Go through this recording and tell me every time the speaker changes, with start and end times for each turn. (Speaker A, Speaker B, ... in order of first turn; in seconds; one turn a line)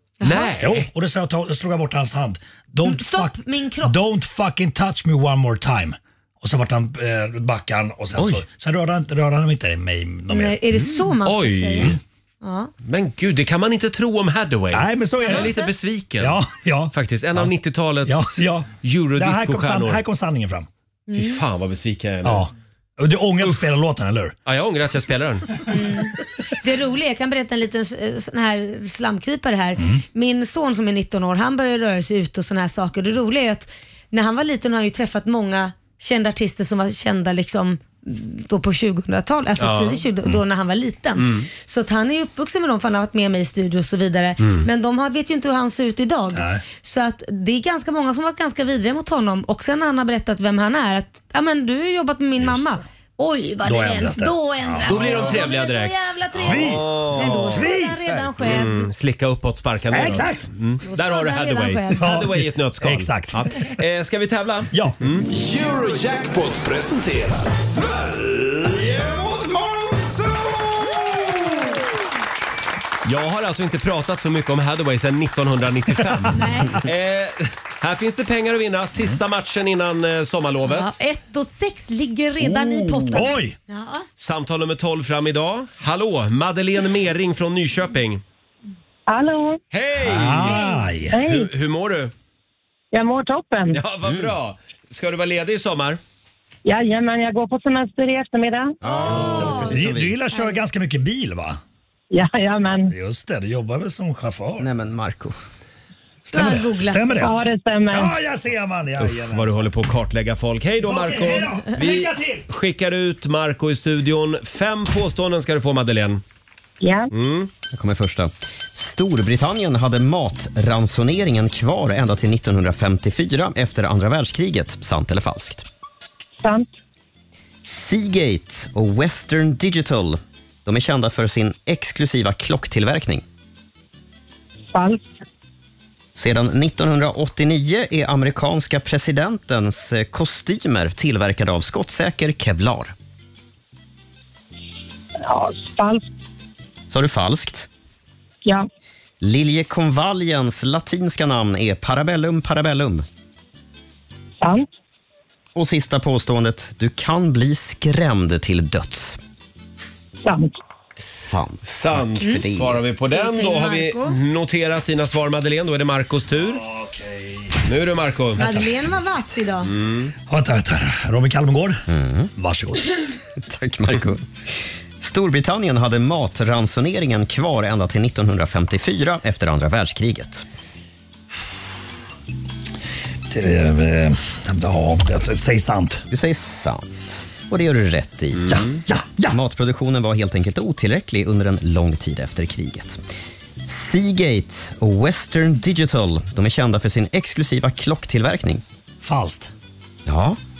Speaker A: 0.2-0.5
Speaker B: 0.2-0.9
Speaker C: 0.6-10.6
Speaker A: 2.8-3.9
Speaker B: 8.2-8.4
Speaker A: 10.3-12.7
Speaker B: 11.1-12.0
Speaker B: 12.8-16.4
Speaker C: 14.7-15.6
Speaker A: 15.2-15.7
Speaker C: 16.2-17.5
Speaker B: 16.9-20.0
Speaker C: 18.0-20.7
Speaker A: 21.1-21.4
Speaker B: 21.1-22.5
Speaker C: 22.2-24.3
Speaker B: 24.4-25.7
Speaker A: 25.7-58.9
Speaker C: 29.8-30.0
Speaker B: 39.6-40.4
Speaker B: 41.2-41.5
Speaker B: 44.4-44.7
Speaker C: 46.3-46.6
Speaker C: 53.6-55.2
Speaker B: 54.8-57.6
Speaker C: 56.4-58.1
Speaker B: 58.4-65.2
Speaker C: 59.9-60.5
Speaker A: 60.9-62.2
Speaker C: 62.0-63.5
Speaker C: 64.7-65.0
Speaker D: 65.2-71.1
Speaker B: 73.0-80.9
Speaker A: 76.3-76.8
Speaker A: 80.6-84.0
Speaker C: 82.4-83.5
Speaker B: 84.2-88.2
Speaker E: 89.1-89.6
Speaker B: 89.7-90.6
Speaker C: 90.0-91.2
Speaker A: 90.5-90.8
Speaker E: 91.1-91.5
Speaker B: 91.2-92.1
Speaker E: 92.9-93.8
Speaker B: 93.7-96.0
Speaker E: 96.6-98.8
Speaker F: 98.8-100.2
Speaker A: 98.8-99.8
Speaker C: 99.2-101.6
Speaker A: 100.3-100.6
Speaker E: 102.1-102.9
Speaker C: 102.9-104.7
Speaker F: 104.6-105.4
Speaker C: 106.2-107.3
Speaker A: 106.3-107.2
Speaker E: 107.2-108.1
Speaker C: 107.9-109.6
Speaker B: 109.0-116.2
Speaker C: 110.8-112.4
Speaker E: 116.8-117.1
Speaker B: 117.1-117.5
Speaker F: 117.7-125.6
Speaker E: 126.4-126.7
Speaker F: 127.6-133.2
Speaker E: 134.7-135.1
Speaker F: 136.1-142.9
Speaker E: 145.2-146.1
Speaker F: 146.9-147.7
Speaker F: 149.2-153.0
Speaker E: 154.4-154.7
Speaker F: 155.5-159.2
Speaker E: 160.2-160.6
Speaker F: 161.0-162.8
Speaker B: 161.7-166.6
Speaker A: 163.1-164.2
Speaker C: 166.3-167.6
Speaker B: 167.7-168.4
Speaker A: 168.4-169.7
Speaker C: 168.4-168.7
Speaker B: 169.7-170.1
Speaker C: 170.3-171.8
Speaker F: 171.9-172.3
Speaker C: 172.4-172.9
Speaker F: 173.4-174.3
Speaker F: 175.0-180.4
Speaker C: 183.3-186.0
Speaker F: 186.1-188.7
Speaker B: 188.3-188.8
Speaker C: 188.5-189.4
Speaker F: 189.3-193.0
Speaker F: 193.6-198.6
Speaker C: 199.0-199.5
Speaker F: 200.1-200.4